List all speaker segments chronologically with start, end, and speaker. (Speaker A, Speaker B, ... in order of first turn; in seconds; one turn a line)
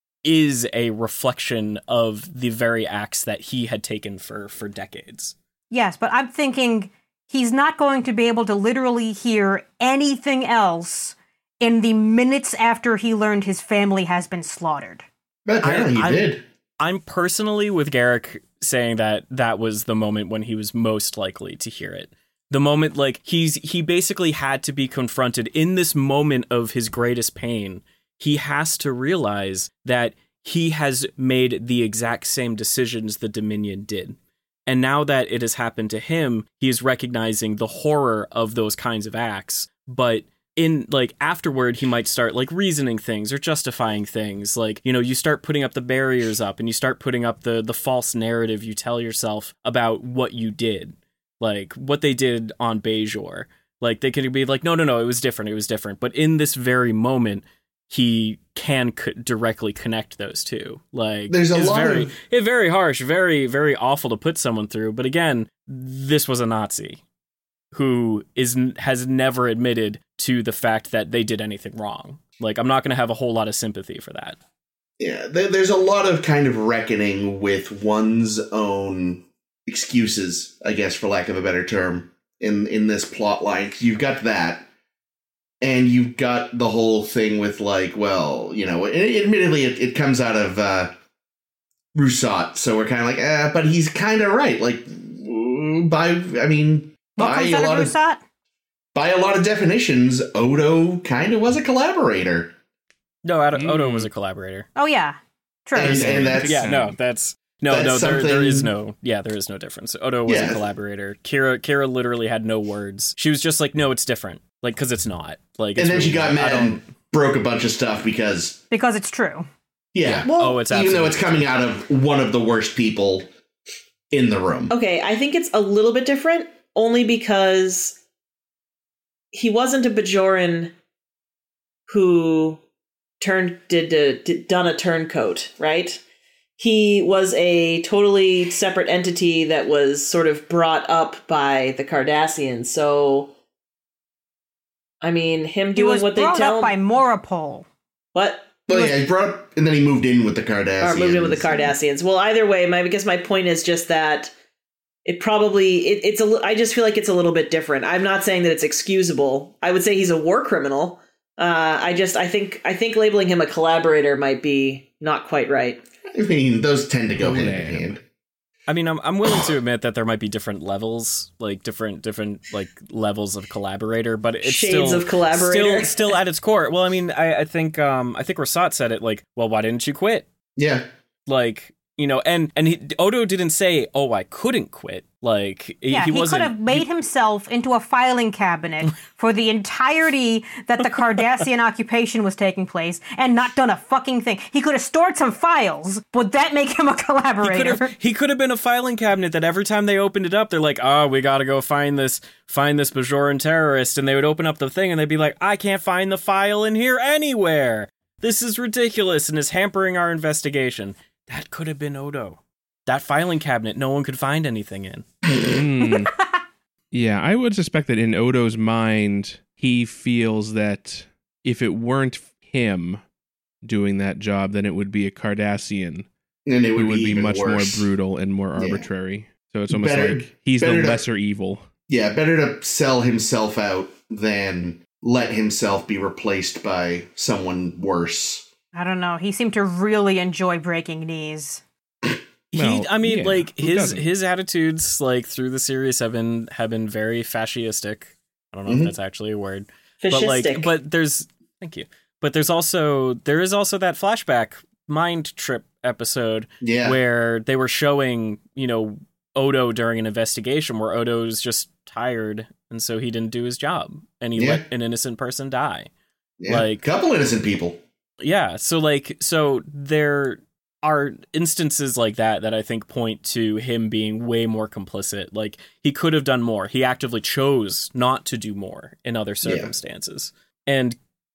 Speaker A: 0.2-5.3
Speaker B: 5.7-15.1
Speaker C: 15.5-16.4
Speaker A: 15.6-67.0
Speaker C: 61.3-62.1
Speaker A: 67.7-74.4
Speaker C: 75.0-84.7
Speaker C: 85.6-90.9
Speaker C: 91.9-97.9
Speaker B: 97.2-98.2
Speaker C: 98.9-102.5
Speaker A: 103.2-104.7
Speaker D: 103.5-104.1
Speaker B: 104.8-106.3
Speaker C: 105.8-106.7
Speaker D: 105.8-107.0
Speaker A: 106.4-116.8
Speaker C: 107.7-108.7
Speaker C: 110.3-110.6
Speaker C: 115.8-118.6
Speaker B: 118.7-119.5
Speaker C: 119.9-123.3
Speaker A: 120.0-121.5
Speaker E: 120.2-120.6
Speaker C: 124.1-124.7
Speaker E: 124.7-128.0
Speaker E: 129.3-130.7
Speaker E: 131.9-132.6
Speaker E: 133.2-136.0
Speaker E: 136.6-143.3
Speaker E: 145.0-146.8
Speaker B: 145.8-147.7
Speaker E: 148.1-148.5
Speaker C: 148.7-151.7
Speaker E: 150.8-154.3
Speaker E: 155.1-165.8
Speaker C: 166.1-168.0
Speaker D: 167.2-168.0
Speaker A: 168.7-180.3
Speaker E: 174.4-176.1
Speaker C: 180.6-180.9
Speaker A: 181.3-186.9
Speaker B: 185.9-197.9
Speaker A: 197.4-215.1
Speaker D: 215.4-216.1
Speaker D: 216.9-223.0
Speaker D: 223.6-226.1
Speaker C: 226.5-227.9
Speaker D: 226.8-231.7
Speaker C: 228.6-228.9
Speaker C: 229.7-231.0
Speaker C: 231.9-238.5
Speaker B: 238.7-241.6
Speaker A: 242.5-265.9
Speaker D: 242.5-244.0
Speaker C: 248.7-248.9
Speaker E: 250.0-250.7
Speaker C: 256.6-257.0
Speaker C: 264.4-264.6
Speaker C: 266.4-267.8
Speaker A: 266.5-266.9
Speaker A: 268.2-281.0
Speaker C: 279.4-279.7